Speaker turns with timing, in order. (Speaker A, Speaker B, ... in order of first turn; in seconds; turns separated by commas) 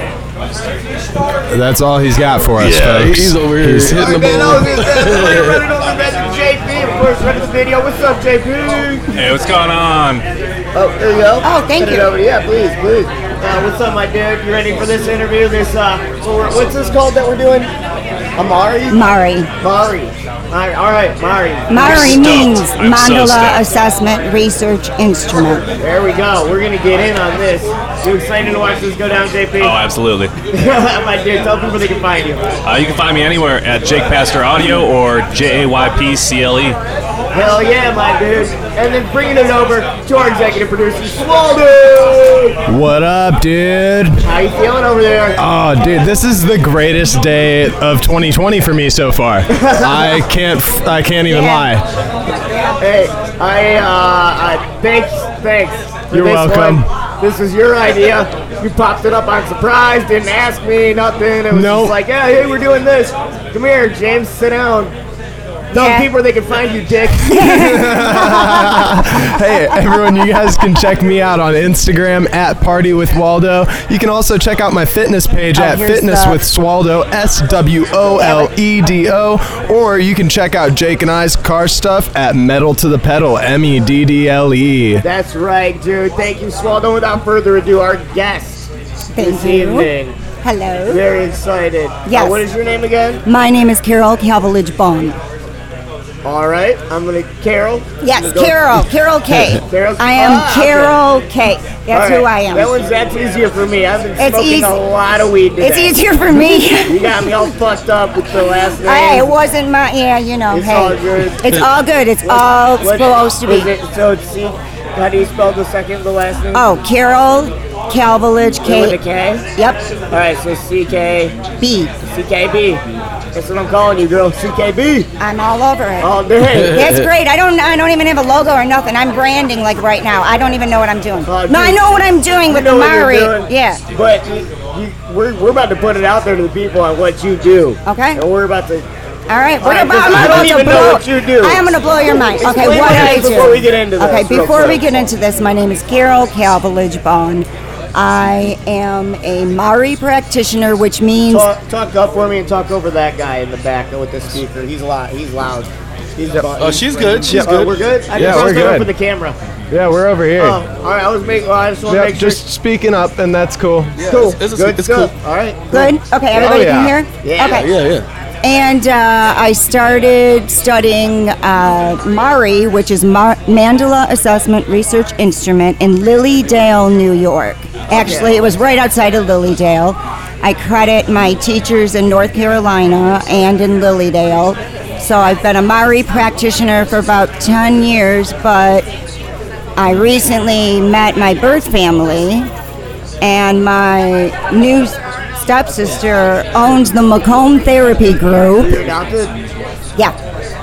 Speaker A: 1.5-4.1, Speaker B: 2.6-5.6, Speaker C: 3.9-9.1, Speaker D: 9.1-10.2, Speaker C: 10.7-17.7, Speaker E: 11.4-12.1, Speaker C: 18.4-19.0, Speaker E: 18.9-19.5, Speaker C: 19.6-22.4, Speaker E: 21.7-25.6, Speaker D: 21.8-23.6, Speaker C: 25.8-29.8, Speaker D: 29.6-30.3, Speaker C: 30.5-32.5, Speaker D: 32.6-36.8, Speaker C: 37.3-42.6, Speaker A: 42.7-44.2, Speaker C: 44.2-45.4, Speaker A: 45.4-51.8, Speaker C: 49.5-50.2, Speaker E: 51.3-51.6, Speaker C: 52.8-65.0, Speaker A: 56.1-56.9, Speaker A: 61.5-62.0, Speaker C: 65.7-67.3, Speaker E: 65.7-66.1, Speaker E: 67.2-69.2, Speaker A: 67.3-85.0, Speaker E: 69.7-70.0, Speaker E: 75.5-76.4, Speaker E: 78.2-78.5, Speaker C: 85.0-90.2, Speaker E: 89.1-89.9, Speaker E: 90.4-91.0, Speaker C: 90.9-93.2, Speaker E: 92.1-92.4, Speaker E: 93.2-95.2, Speaker C: 96.2-98.6, Speaker E: 98.0-102.7, Speaker C: 99.7-101.0, Speaker C: 101.9-106.0, Speaker E: 104.2-104.8, Speaker E: 105.6-107.3, Speaker C: 106.9-109.3, Speaker E: 108.8-113.7, Speaker C: 110.5-111.7, Speaker C: 112.3-116.7, Speaker E: 116.5-119.0, Speaker C: 118.7-119.5, Speaker E: 119.6-119.8, Speaker C: 120.1-121.4, Speaker E: 121.6-121.9, Speaker C: 122.0-125.1, Speaker E: 125.2-133.8, Speaker C: 126.0-126.9, Speaker B: 126.5-127.0, Speaker C: 131.3-131.9, Speaker C: 132.5-138.9, Speaker E: 137.8-138.2, Speaker E: 139.3-151.5, Speaker C: 139.6-141.7, Speaker C: 142.4-145.1, Speaker C: 151.3-159.4, Speaker B: 156.6-158.5, Speaker A: 157.3-157.6, Speaker A: 158.1-158.9, Speaker A: 159.7-160.6, Speaker C: 160.4-162.4, Speaker A: 161.9-164.1, Speaker B: 164.0-165.1, Speaker C: 164.0-165.9, Speaker E: 165.7-167.7, Speaker A: 166.3-167.0, Speaker C: 167.2-167.7, Speaker B: 167.4-168.1, Speaker E: 168.4-188.9, Speaker C: 177.9-178.5, Speaker E: 189.8-192.5, Speaker E: 193.2-198.8, Speaker C: 195.7-196.0, Speaker C: 198.5-199.4